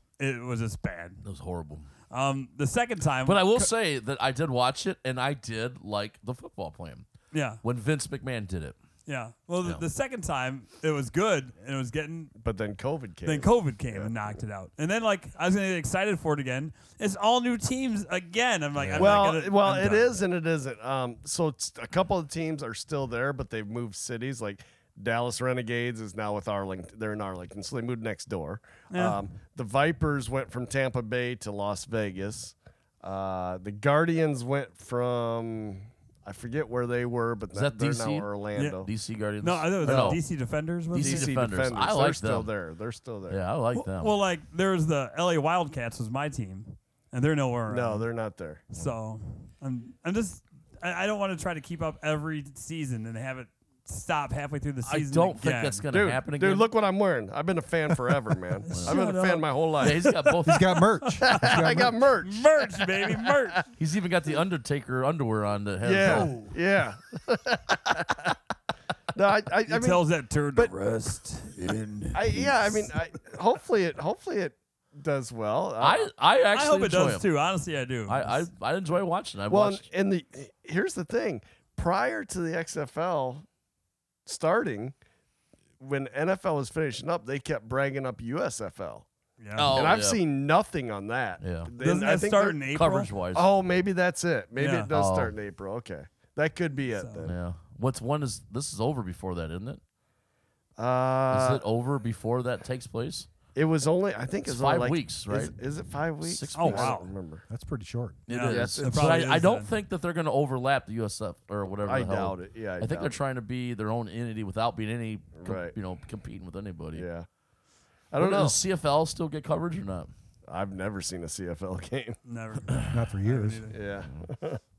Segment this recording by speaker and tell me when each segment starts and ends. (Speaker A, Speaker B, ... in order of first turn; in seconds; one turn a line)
Speaker A: 0.2-1.2
Speaker B: 1.2-1.9
Speaker A: 2.1-3.7
Speaker B: 3.3-7.1
Speaker A: 7.3-7.6
Speaker B: 7.6-8.8
Speaker A: 9.1-12.3
Speaker C: 12.4-14.1
Speaker A: 13.2-20.2
Speaker B: 18.8-19.3
Speaker C: 19.0-38.9
Speaker A: 28.9-29.2
Speaker B: 37.5-38.3
Speaker A: 38.5-38.9
Speaker B: 38.8-40.2
Speaker A: 39.4-41.3
Speaker C: 39.8-40.2
Speaker B: 40.9-42.5
Speaker C: 41.0-43.4
Speaker B: 43.3-44.1
Speaker A: 43.7-48.1
Speaker C: 47.7-48.6
Speaker A: 48.7-55.8
Speaker B: 54.9-56.7
Speaker C: 55.9-60.0
Speaker A: 58.6-60.2
Speaker B: 58.7-59.0
Speaker B: 59.8-60.7
Speaker D: 60.5-62.1
Speaker A: 60.7-63.7
Speaker C: 61.3-63.3
Speaker B: 63.8-66.4
Speaker C: 65.8-68.3
Speaker A: 66.0-66.5
Speaker C: 69.1-70.7
Speaker A: 69.7-73.0
Speaker C: 72.1-76.1
Speaker B: 75.8-77.2
Speaker A: 76.5-78.5
Speaker B: 78.1-79.8
Speaker C: 79.5-83.5
Speaker C: 84.3-84.9
Speaker C: 85.8-89.1
Speaker A: 89.4-89.8
Speaker B: 89.6-90.2
Speaker C: 89.7-92.6
Speaker B: 91.4-91.7
Speaker A: 91.8-93.1
Speaker B: 92.7-93.5
Speaker C: 93.3-97.4
Speaker A: 94.6-94.9
Speaker B: 94.9-95.4
Speaker A: 96.9-97.3
Speaker B: 97.3-99.8
Speaker C: 100.8-101.6
Speaker B: 101.3-103.3
Speaker C: 103.5-107.4
Speaker B: 104.5-105.6
Speaker B: 106.2-107.0
Speaker A: 106.5-107.1
Speaker D: 107.5-108.2
Speaker A: 108.3-109.7
Speaker B: 108.3-117.1
Speaker C: 108.5-109.4
Speaker C: 111.9-113.2
Speaker C: 115.4-115.8
Speaker C: 117.0-117.3
Speaker C: 118.1-118.6
Speaker B: 118.2-120.1
Speaker C: 120.5-122.2
Speaker A: 122.3-123.8
Speaker D: 122.9-123.7
Speaker C: 123.7-124.6